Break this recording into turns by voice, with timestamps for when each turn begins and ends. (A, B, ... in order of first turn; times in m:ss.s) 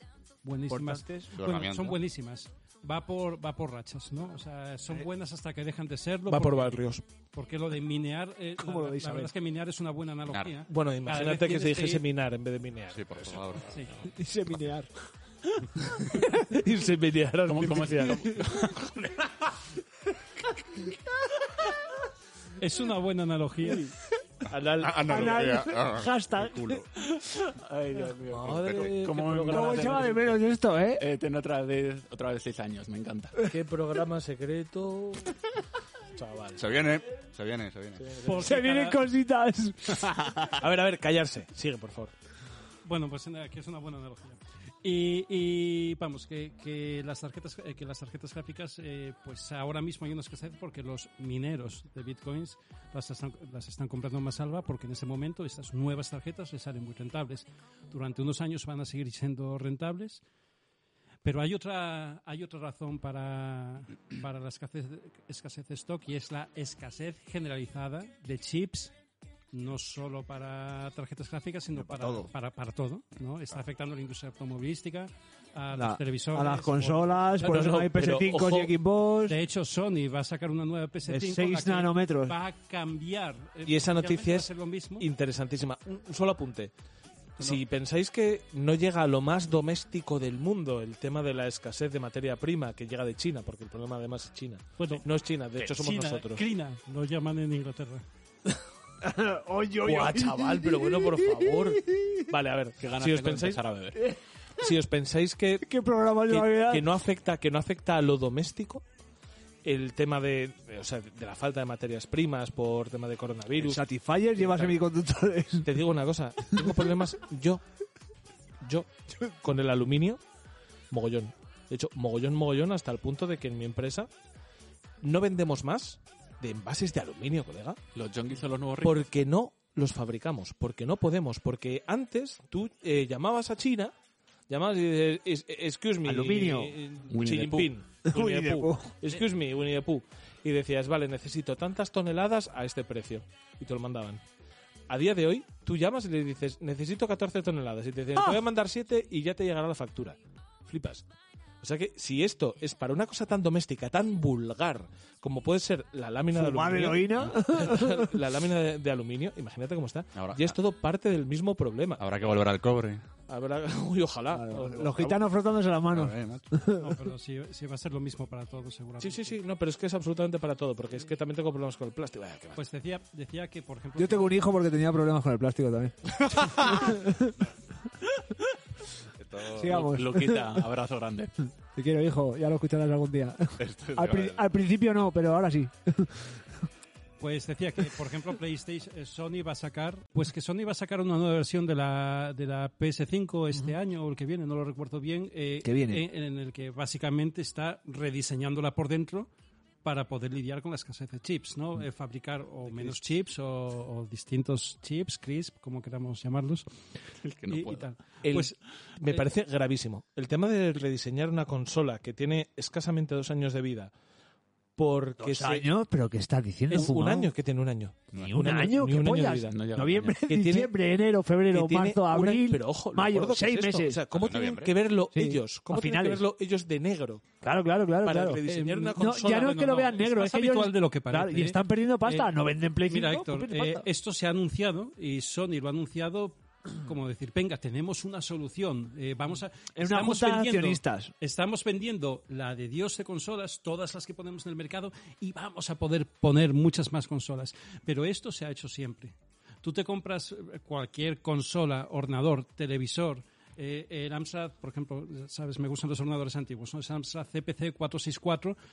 0:00.4-0:12.0 A
0:00.7-0:01.3 B
0:01.3-0:02.0 C
0:06.3-0:07.0 D
0:08.6-0:09.3 B
0:10.3-0:10.5 C
0:10.7-0:13.5 D
0:12.9-0:13.8 C
0:13.7-0:14.0 A
0:14.1-0:14.9 B
0:15.8-0:18.4 D
0:17.5-0:19.3 E
0:22.6-0:23.9 A
0:24.5-0:25.6 D
0:24.8-0:26.8 C
0:25.0-0:26.8 B
0:27.6-0:30.2 E
0:28.3-0:30.2 D
0:28.6-0:28.9 C
0:29.5-0:31.0 B
0:31.0-0:33.5 E
0:33.4-0:35.3 D
0:36.1-0:36.7 D
0:36.6-0:38.1 C
0:38.0-0:38.6 D
0:38.2-0:39.0 A
0:38.4-0:40.2 B
0:40.5-0:42.1 D
0:42.8-1:00.2 A
1:01.2-1:08.9 A
1:09.5-1:17.3 A
1:11.8-1:12.2 B
1:15.7-1:19.4 B
1:17.4-1:18.7 D
1:19.3-1:25.1 A
1:21.0-1:22.3 B
1:23.6-1:26.7 D
1:27.4-1:36.4 D
1:34.8-1:35.0 A
1:35.6-1:38.0 A
1:39.0-1:42.2 B
1:39.8-1:43.6 D
1:42.8-1:44.0 E
1:44.6-1:45.7 D
1:45.6-1:46.8 B
1:46.3-1:48.8 D
1:49.6-1:53.8 D
1:53.5-1:55.7 B
1:54.4-1:54.8 D
1:55.6-1:57.6 D
1:58.6-2:00.2 D
2:00.9-2:04.1 D
2:05.0-2:07.8 D
2:07.9-2:09.1 E
2:08.8-2:13.9 D
2:14.5-2:24.2 D
2:16.0-2:16.8 B
2:17.1-2:17.7 E
2:18.0-2:19.0 B
2:24.9-2:31.0 D
2:31.6-2:42.4 D
2:36.3-2:38.1 B
2:42.0-2:43.0 C
2:43.3-2:45.2 D
2:44.3-2:47.0 B
2:45.9-2:46.5 C
2:46.8-2:49.4 A
2:49.0-2:52.6 D
2:52.6-2:54.3 A
2:54.0-2:57.3 B
2:59.2-2:59.8 C
2:59.5-3:00.6 B
2:59.6-3:01.3 E
3:01.8-3:06.6 B
3:03.6-3:04.4 C
3:07.2-3:19.3 A
3:15.6-3:16.0 B
3:19.8-3:26.7 A
3:22.6-3:23.0 D
3:27.2-3:27.9 E
3:27.5-3:29.2 A
3:28.2-3:33.9 D
3:34.8-3:35.7 D
3:35.2-3:37.3 B
3:36.7-3:39.5 D
3:38.1-3:44.0 B
3:39.5-3:40.2 E
3:40.3-3:40.7 D
3:41.5-3:47.2 D
3:44.2-3:44.6 E
3:44.2-3:44.7 C
3:45.1-3:46.2 B
3:47.4-3:48.4 B
3:48.0-3:50.0 D
3:48.4-3:52.3 A
3:49.0-3:53.8 B
3:52.9-4:18.6 A
3:59.8-4:01.1 B